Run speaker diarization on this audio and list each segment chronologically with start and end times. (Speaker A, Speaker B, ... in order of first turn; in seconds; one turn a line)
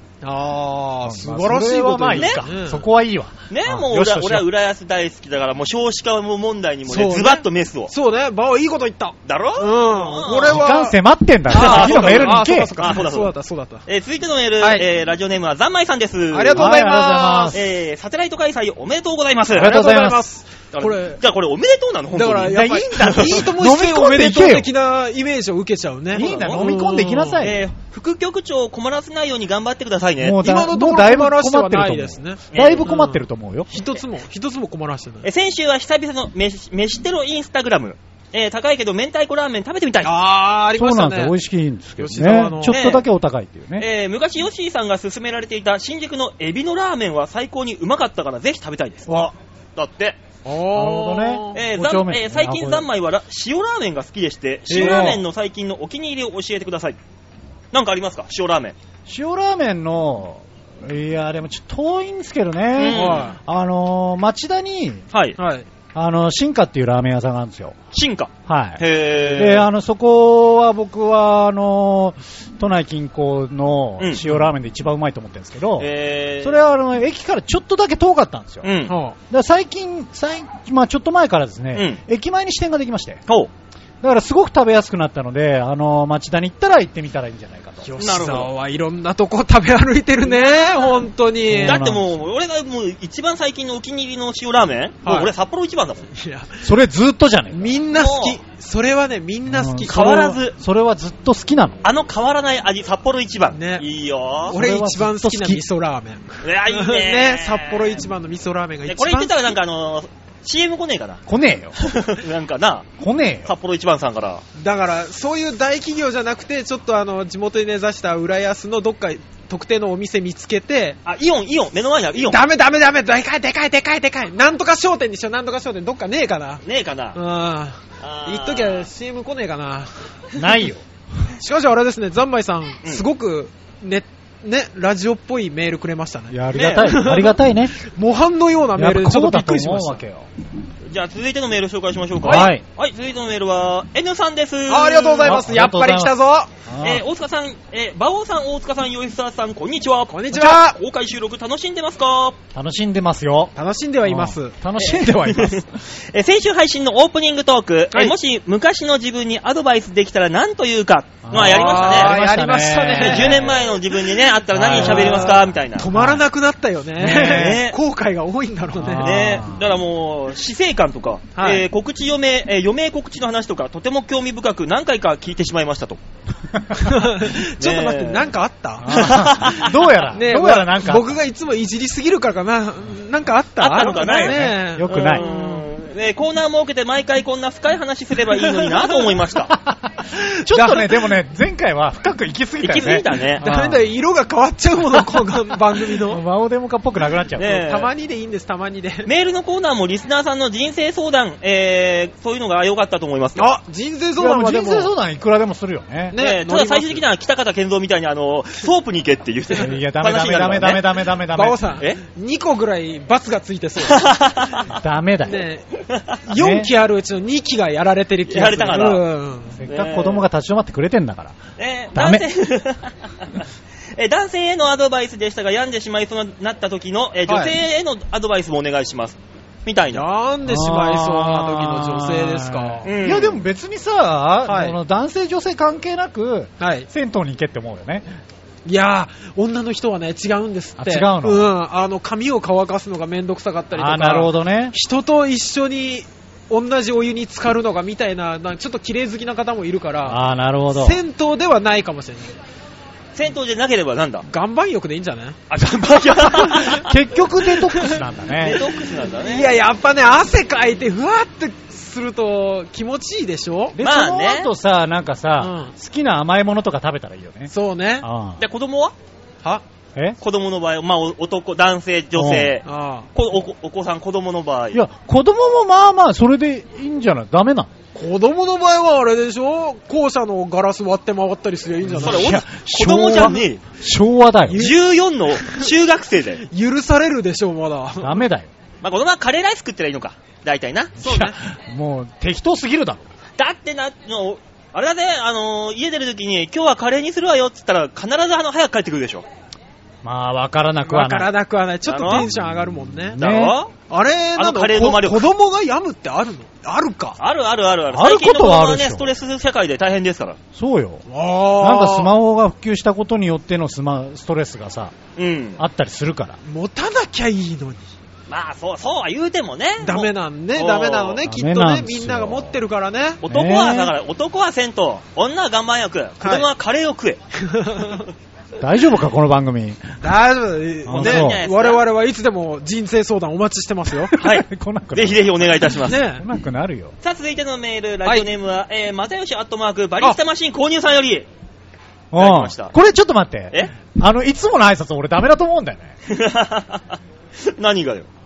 Speaker A: 0.2-2.9
Speaker B: 1.1-4.5
Speaker C: 2.1-2.4
Speaker C: 3.5-7.9
Speaker A: 6.9-11.0
Speaker C: 9.2-10.6
Speaker B: 10.5-12.8
Speaker A: 11.5-13.8
Speaker C: 11.5-13.3
Speaker C: 13.9-16.7
Speaker A: 16.3-17.6
Speaker B: 16.6-17.7
Speaker C: 17.5-19.8
Speaker B: 19.5-20.2
Speaker A: 19.6-21.2
Speaker C: 20.7-23.4
Speaker A: 22.1-27.4
Speaker B: 22.5-24.7
Speaker B: 26.1-27.7
Speaker C: 26.2-26.6
Speaker C: 27.4-30.4
Speaker B: 30.2-33.7
Speaker A: 30.4-35.3
Speaker C: 32.5-32.9
Speaker C: 35.2-40.1
Speaker A: 40.0-41.3
Speaker B: 40.8-43.9
Speaker A: 42.0-42.8
Speaker C: 42.7-43.0
Speaker C: 43.8-49.1
Speaker B: 49.1-49.4
Speaker C: 49.8-50.2
Speaker A: 50.5-51.6
Speaker B: 50.8-52.9
Speaker C: 51.5-57.0
Speaker A: 54.7-55.2
Speaker B: 54.7-55.2
Speaker C: 57.7-58.8
Speaker B: 59.1-65.0
Speaker C: 62.8-63.3
Speaker A: 62.9-63.4
Speaker C: 65.1-65.4
Speaker A: 65.4-65.7
Speaker B: 65.9-67.8
Speaker C: 67.9-69.7
Speaker B: 68.5-75.9
Speaker C: 74.0-74.2
Speaker C: 75.8-76.6
Speaker B: 76.4-78.7
Speaker C: 78.6-78.9
Speaker A: 78.9-79.2
Speaker B: 79.3-83.2
Speaker C: 81.7-82.0
Speaker B: 84.0-88.0
Speaker A: 87.9-91.8
Speaker C: 88.0-88.5
Speaker B: 91.5-92.1
Speaker C: 91.6-96.1
Speaker A: 95.0-95.3
Speaker A: 96.1-96.6
Speaker B: 96.6-97.8
Speaker A: 97.5-100.0
Speaker C: 97.9-98.4
Speaker B: 99.5-101.8
Speaker C: 99.9-100.6
Speaker C: 101.8-104.6
Speaker A: 103.5-103.8
Speaker B: 104.5-105.6
Speaker A: 104.5-109.5
Speaker C: 106.4-108.0
Speaker C: 108.9-111.2
Speaker B: 111.3-111.8
Speaker C: 111.8-112.9
Speaker B: 113.0-113.5
Speaker C: 113.5-114.4
Speaker A: 114.6-121.0
Speaker C: 121.0-122.4
Speaker A: 122.2-126.6
Speaker C: 126.6-127.2
Speaker A: 127.2-130.1
Speaker C: 128.0-128.9
Speaker B: 130.3-130.8
Speaker A: 131.4-140.0
Speaker B: 136.3-137.8
Speaker C: 136.5-136.9
Speaker B: 138.8-140.3
Speaker C: 140.8-145.5
Speaker B: 142.2-142.6
Speaker A: 142.2-142.5
Speaker A: 144.7-146.5
Speaker B: 145.2-146.1
Speaker B: 146.7-147.0
Speaker C: 146.8-152.4
Speaker A: 150.1-150.8
Speaker B: 152.5-153.5
Speaker A: 153.6-154.6
Speaker B: 154.1-155.6
Speaker C: 154.8-162.2
Speaker B: 161.3-163.5
Speaker A: 161.4-163.7
Speaker C: 163.0-165.9
Speaker B: 164.5-166.2
Speaker A: 164.7-169.1
Speaker B: 167.0-167.6
Speaker C: 167.0-167.8
Speaker B: 168.8-169.7
Speaker C: 169.0-176.0
Speaker A: 171.4-171.7
Speaker B: 176.5-176.8
Speaker A: 176.8-179.5
Speaker C: 177.6-178.3
Speaker B: 178.8-181.2
Speaker C: 178.9-179.8
Speaker A: 180.1-185.6
Speaker C: 183.6-189.5
Speaker B: 183.9-185.2
Speaker A: 188.4-189.1
Speaker B: 189.5-193.9
Speaker A: 190.4-191.1
Speaker C: 192.6-193.4
Speaker A: 193.4-196.2
Speaker B: 196.0-197.6
Speaker C: 197.4-197.9
Speaker A: 197.4-199.1
Speaker C: 199.1-203.5
Speaker A: 203.4-204.9
Speaker B: 204.2-206.2
Speaker A: 206.1-207.0
Speaker C: 206.2-210.8
Speaker B: 209.6-211.6
Speaker A: 211.3-214.2
Speaker C: 213.8-214.7
Speaker B: 214.7-215.5
Speaker A: 215.2-215.7
Speaker C: 215.9-216.2
Speaker A: 216.3-219.6
Speaker B: 216.3-216.7
Speaker C: 218.3-219.1
Speaker B: 219.6-221.4
Speaker C: 219.7-220.2
Speaker C: 221.6-230.1
Speaker B: 221.9-222.2
Speaker A: 227.3-227.6
Speaker A: 229.9-232.9
Speaker B: 230.5-238.1
Speaker C: 232.8-233.4
Speaker A: 234.4-234.8
Speaker A: 236.6-236.9
Speaker A: 238.7-250.2
Speaker B: 240.8-241.5
Speaker B: 243.7-244.8
Speaker B: 250.0-251.0
Speaker A: 250.7-252.4
Speaker C: 253.2-254.3
Speaker A: 254.3-255.4
Speaker C: 255.5-256.9
Speaker B: 256.4-258.6
Speaker A: 257.5-258.0
Speaker C: 258.4-259.5
Speaker A: 259.2-263.8
Speaker B: 263.8-268.4
Speaker C: 263.8-264.5
Speaker A: 265.4-265.7
Speaker A: 267.5-268.1
Speaker C: 268.4-268.9
Speaker C: 270.2-274.8
Speaker B: 272.2-272.6
Speaker A: 272.7-273.1
Speaker B: 274.7-277.7
Speaker A: 277.9-282.4
Speaker B: 281.8-284.7
Speaker C: 282.0-283.6
Speaker A: 284.5-284.8
Speaker C: 284.6-286.4
Speaker A: 285.3-285.7
Speaker A: 286.5-288.2
Speaker B: 288.0-288.5
Speaker C: 288.8-291.2
Speaker B: 291.0-293.0
Speaker A: 291.0-291.3
Speaker C: 293.4-299.2
Speaker B: 300.0-301.3
Speaker A: 300.9-303.2
Speaker C: 301.9-302.3
Speaker B: 303.1-303.6
Speaker C: 303.2-303.7
Speaker A: 303.8-307.2
Speaker C: 304.4-305.3
Speaker C: 307.2-310.4
Speaker B: 307.9-309.1
Speaker B: 310.5-311.0
Speaker A: 311.1-312.1
Speaker B: 311.6-314.9
Speaker C: 315.2-315.6
Speaker B: 315.6-316.4
Speaker A: 316.4-317.9
Speaker C: 318.3-321.2
Speaker A: 319.8-323.2
Speaker B: 321.2-322.6
Speaker C: 323.2-327.2
Speaker B: 323.3-323.9
Speaker A: 326.2-326.5
Speaker A: 327.4-328.1
Speaker B: 328.6-329.9
Speaker A: 330.0-334.2
Speaker B: 330.9-331.4
Speaker C: 330.9-331.8
Speaker B: 334.1-336.9
Speaker C: 334.2-336.0
Speaker A: 335.9-336.2
Speaker C: 337.0-341.3
Speaker B: 342.1-345.9
Speaker C: 342.2-342.7
Speaker C: 346.1-348.1